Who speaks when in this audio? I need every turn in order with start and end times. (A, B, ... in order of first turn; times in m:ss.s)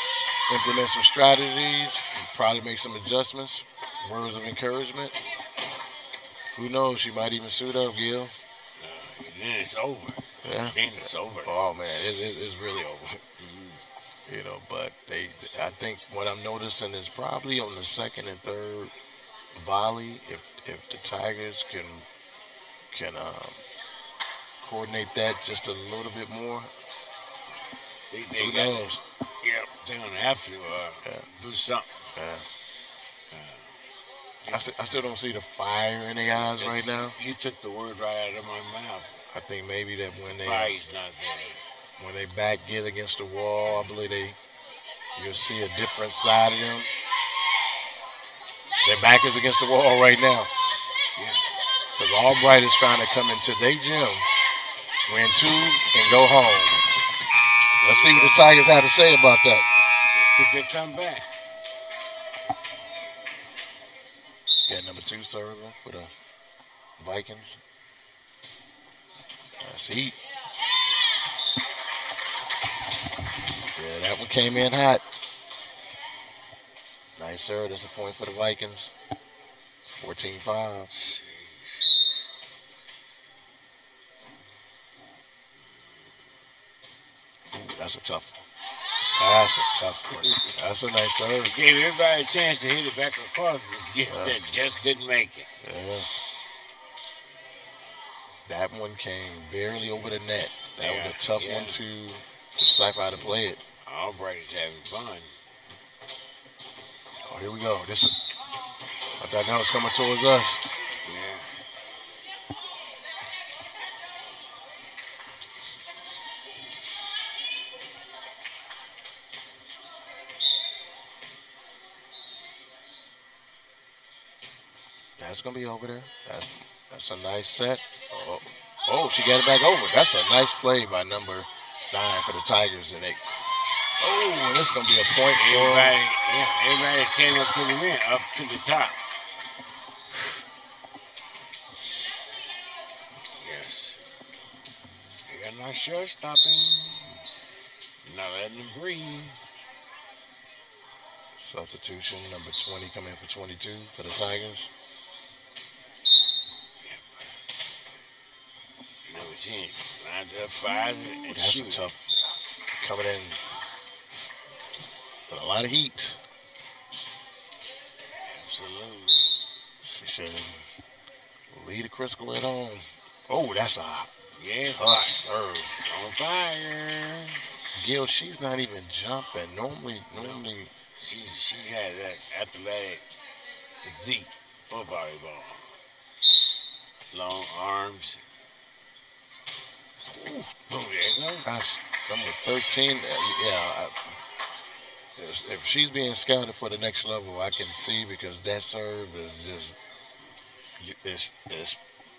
0:00.5-0:05.2 A
0:06.5-0:08.3 A
0:08.8-0:11.5 B
0:10.4-0:13.2 A
0:13.4-0:13.8 B
0:14.2-0:18.9 A
0:19.6-0:22.1 A
0:22.9-0:23.6 A
0:24.6-0:26.7 A
0:28.1-0:32.1 B
0:28.4-0:29.0 A
0:32.2-0:32.5 A
0:33.3-0:33.7 B
0:34.5-0:37.2 A
0:36.4-0:39.1 B
0:39.3-0:40.8 A
0:40.1-0:41.6 B
0:42.0-0:44.4 A
0:45.2-0:46.9 A
0:48.8-0:50.5 A
0:51.2-0:51.4 B
0:52.0-0:54.3 A
0:55.0-0:56.8 A
0:57.8-0:58.5 B
0:57.8-0:59.7 A
1:00.1-1:01.3 B
1:04.6-1:06.1 A
1:07.0-1:07.6 A
1:09.6-1:10.2 A
1:13.7-1:15.0 A
1:17.2-1:18.9 A
1:20.0-1:20.9 A
1:20.9-1:22.1 B
1:27.5-1:28.4 A
1:29.2-1:31.5 A
1:31.4-1:35.5 B
1:34.1-1:34.4 A
1:35.6-1:36.1 A
1:38.4-1:43.6 A
1:40.8-1:41.8 B
1:43.8-1:45.4 B
1:47.2-1:48.1 A
1:49.2-1:50.6 A
1:51.0-1:51.5 B
2:05.2-2:13.2 A
2:14.0-2:16.0 A
2:15.3-2:19.0 B
2:23.4-2:24.0 B
2:25.3-2:27.1 B
2:28.0-2:29.4 B
2:31.4-2:34.7 A
2:36.8-2:37.2 B
2:39.0-2:41.9 B
2:41.2-2:42.1 A
2:42.7-2:43.4 A
2:45.3-2:46.2 A
2:48.2-2:49.4 B
2:49.8-2:50.7 A
2:51.5-2:54.1 A
2:54.3-2:55.2 B
2:54.8-2:55.8 A
2:55.8-2:57.4 B
2:57.7-3:00.7 A
3:00.1-3:03.0 B
3:03.8-3:05.7 B
3:07.1-3:08.2 B
3:10.7-3:11.5 B
3:11.4-3:14.2 A
3:15.2-3:19.8 A
3:20.8-3:21.8 A